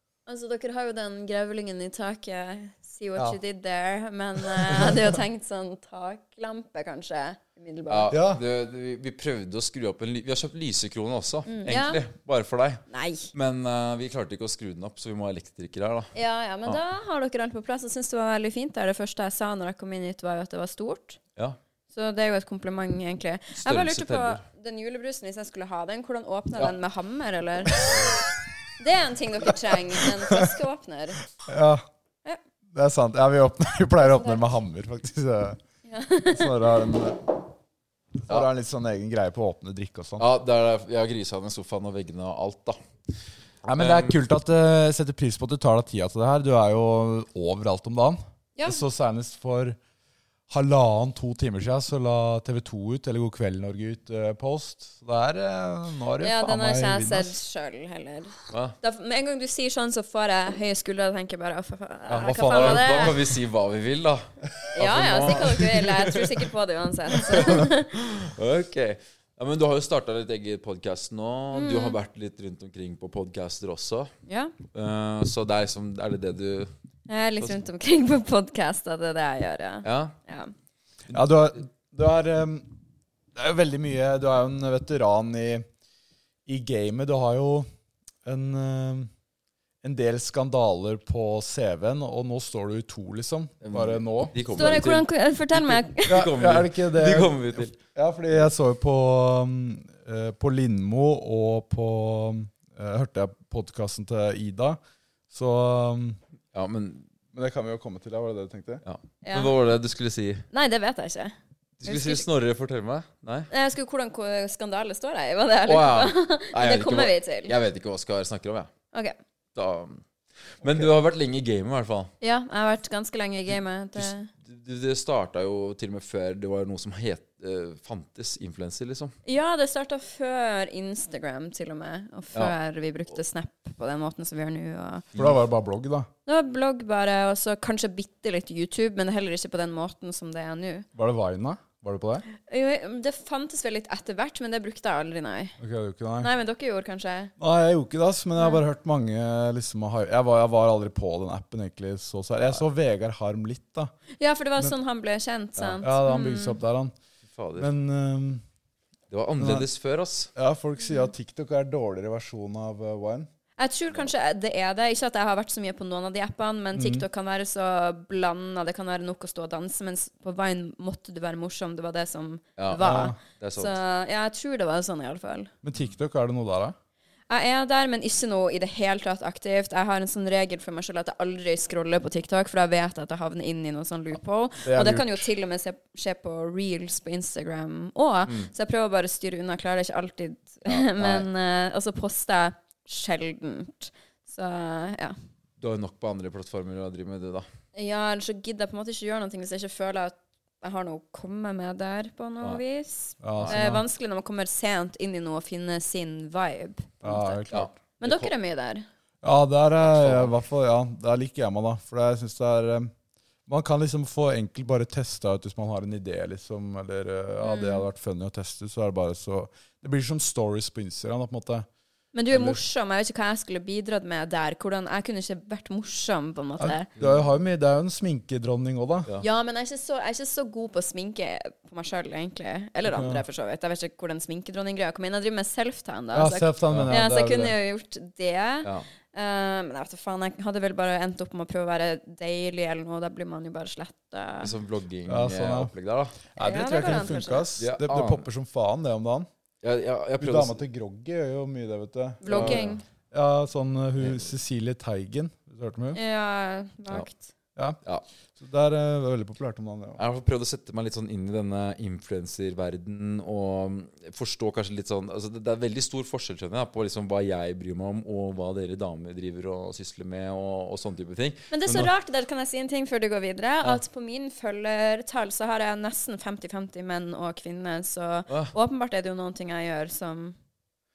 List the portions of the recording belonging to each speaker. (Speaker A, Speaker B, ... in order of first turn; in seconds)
Speaker A: 0.3-8.1, 11.5-12.0, 12.9-13.3, 16.1-21.2, 21.9-27.9, 28.8-31.2, 34.0-34.5, 35.9-36.7, 56.2-63.2, 64.7-68.0, 71.5-72.0, 74.3-74.5, 77.1-80.5, 94.5-96.3, 109.2-109.5, 110.5-111.3, 111.8-112.2, 113.5-117.5, 122.2-124.3, 129.2-135.0, 136.2-140.9, 142.3-145.6, 146.2-147.3, 154.2-156.6, 163.6-175.5, 177.3-195.2, 197.7-207.4, 208.0-208.9, 217.4-217.8, 222.1-226.9, 229.2-244.5, 246.4-247.4, 252.2-252.8, 255.9-257.2, 271.5-280.4
Speaker B: 4.8-5.1, 8.1-8.4, 30.0-30.5, 31.4-31.8, 32.7-35.6, 36.3-37.3, 38.2-40.3, 43.6-49.8, 50.5-57.4, 62.1-63.1, 65.6-65.9, 67.3-67.6, 81.1-82.7, 83.3-85.6, 86.5-87.7, 88.2-89.1, 89.8-94.4, 96.1-104.8, 105.3-106.2, 107.3-108.8, 135.2-136.1, 140.9-142.2, 145.6-146.3, 147.4-153.9, 155.8-156.9, 157.6-158.4, 159.4-159.7, 160.3-163.3, 166.8-167.0, 172.8-173.2, 175.6-176.7, 184.6-185.2, 203.2-203.8, 207.0-207.7, 209.2-212.9, 213.5-221.7, 222.3-222.6, 226.6-229.1, 232.8-233.2, 236.1-237.5, 245.1-245.7, 246.3-249.3, 250.2-256.0, 258.4-260.0
Speaker C: 7.9-12.8, 13.3-16.1, 23.6-24.4, 40.2-42.8, 43.8-44.1, 58.5-58.8, 62.5-65.9, 67.3-74.1, 74.7-76.7, 79.8-80.2, 93.6-97.7, 106.5-107.1, 108.8-110.5, 111.8-113.5, 115.7-118.7, 119.5-120.0, 120.6-122.1, 124.0-129.1, 135.1-135.4, 157.3-157.7, 159.1-160.3, 172.6-173.8, 190.7-191.3, 195.6-197.5, 207.5-208.3, 209.8-210.3, 236.7-236.9, 244.4-246.2, 247.6-248.2, 249.6-250.6, 252.3-252.8, 260.0-271.9, 278.3-278.5